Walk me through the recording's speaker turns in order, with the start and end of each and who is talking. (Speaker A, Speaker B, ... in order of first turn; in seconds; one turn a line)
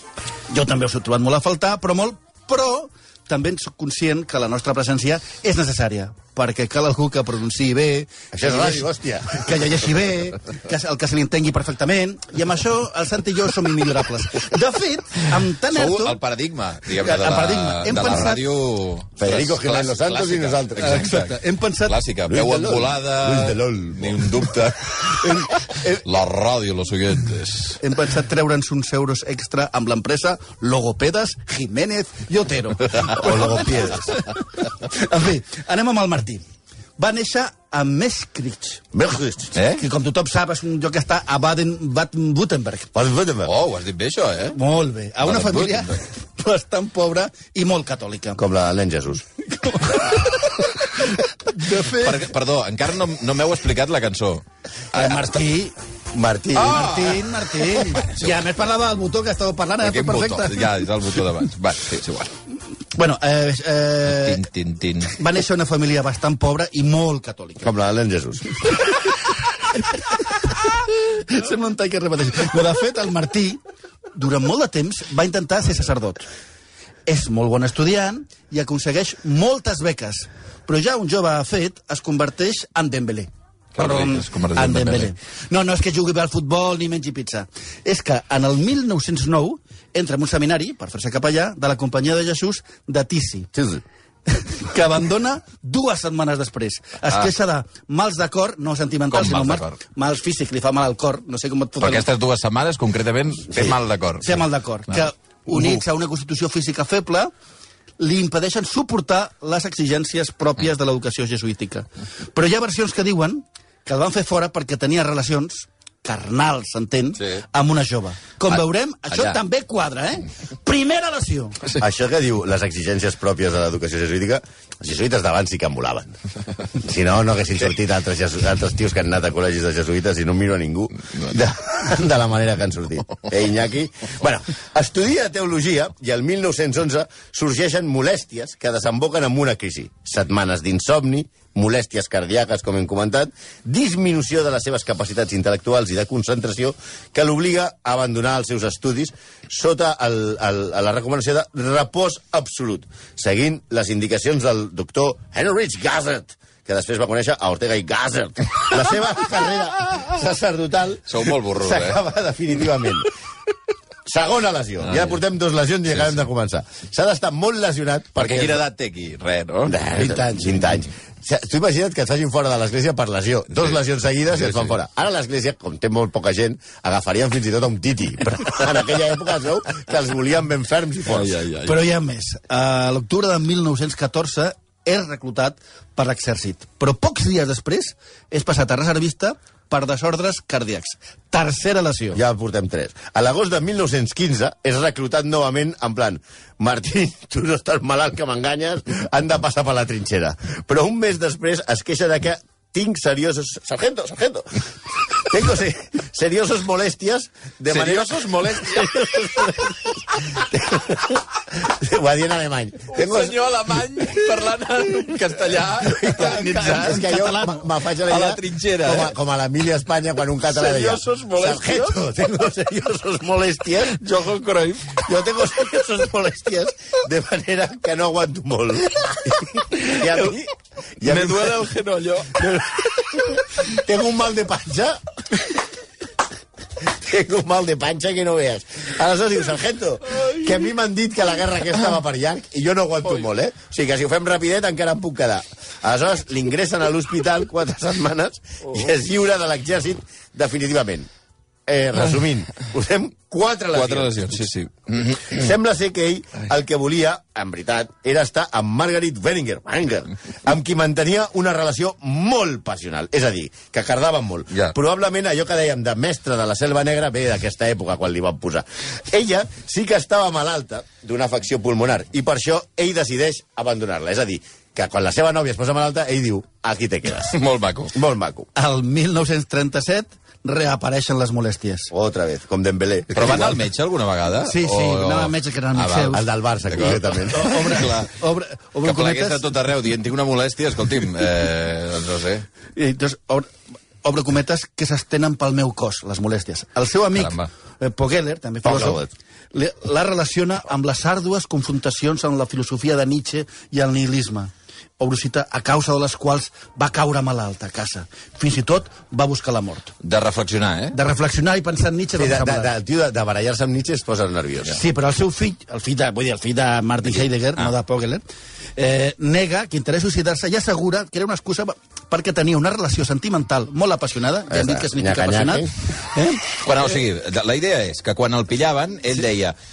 Speaker A: 0.5-16.2
Speaker B: 8.3-9.4
Speaker C: 15.7-27.8
Speaker A: 16.9-18.4
Speaker B: 19.2-21.1
Speaker A: 20.8-22.0
Speaker B: 22.3-24.6
Speaker A: 25.2-26.0
Speaker A: 27.8-36.4
Speaker B: 33.0-34.1
Speaker A: 37.0-38.8
Speaker B: 38.9-39.6
Speaker C: 39.5-39.8
Speaker A: 39.7-42.9
Speaker B: 42.9-43.5
Speaker C: 43.4-44.6
Speaker A: 44.5-48.4
Speaker C: 45.2-46.0
Speaker B: 48.4-49.2
Speaker A: 49.5-52.2
Speaker C: 51.7-55.4
Speaker A: 54.9-55.8
Speaker B: 56.1-57.2
Speaker A: 56.5-60.8
Speaker C: 56.6-57.1
Speaker C: 57.8-58.4
Speaker C: 59.8-62.3
Speaker A: 62.9-64.4
Speaker C: 64.0-65.1
Speaker A: 65.1-67.7
Speaker B: 67.6-68.6
Speaker A: 69.8-73.6
Speaker A: 74.1-76.3
Speaker A: 77.1-93.5
Speaker C: 83.7-85.1
Speaker B: 93.5-93.8
Speaker A: 94.3-102.1
Speaker C: 99.1-99.8
Speaker C: 101.8-105.8
Speaker A: 104.2-107.3
Speaker A: 108.0-121.6
Speaker C: 118.5-119.4
Speaker B: 121.8-126.2
Speaker B: 126.8-163.1
Speaker C: 161.1-162.0
Speaker B: 164.1-168.6
Speaker C: 164.8-165.2
Speaker C: 165.9-166.2
Speaker C: 168.2-170.5
Speaker B: 169.7-181.3
Speaker C: 174.3-174.7
Speaker C: 181.1-181.8
Speaker A: 181.6-192.2
Speaker B: 192.1-204.4
Speaker B: 205.2-209.5
Speaker C: 207.7-210.5
Speaker B: 210.5-213.4
Speaker C: 212.9-217.3
Speaker B: 215.9-224.0
Speaker A: 216.2-217.7
Speaker C: 218.0-219.1
Speaker C: 220.4-222.0
Speaker C: 223.8-225.1
Speaker B: 225.0-231.7
Speaker C: 229.5-230.3
Speaker C: 231.1-233.1
Speaker B: 233.1-235.0
Speaker B: 237.0-251.1
Speaker B: 251.7-254.5
Speaker C: 253.7-255.4
Speaker B: 255.2-277.4
Speaker C: 277.3-277.9
Speaker B: 277.9-278.5
Speaker A: 278.5-281.9
Speaker B: 281.9-283.6
Speaker C: 283.1-288.1
Speaker A: 284.4-286.2
Speaker B: 286.1-287.5
Speaker A: 287.2-289.4
Speaker C: 288.8-292.4
Speaker A: 292.7-293.5
Speaker A: 294.0-309.9
Speaker C: 297.1-297.5
Speaker B: 298.6-299.1
Speaker C: 310.0-310.9
Speaker A: 310.9-312.7
Speaker B: 312.1-314.8
Speaker A: 314.7-318.2
Speaker A: 318.8-326.4
Speaker B: 324.5-325.7
Speaker C: 326.6-329.6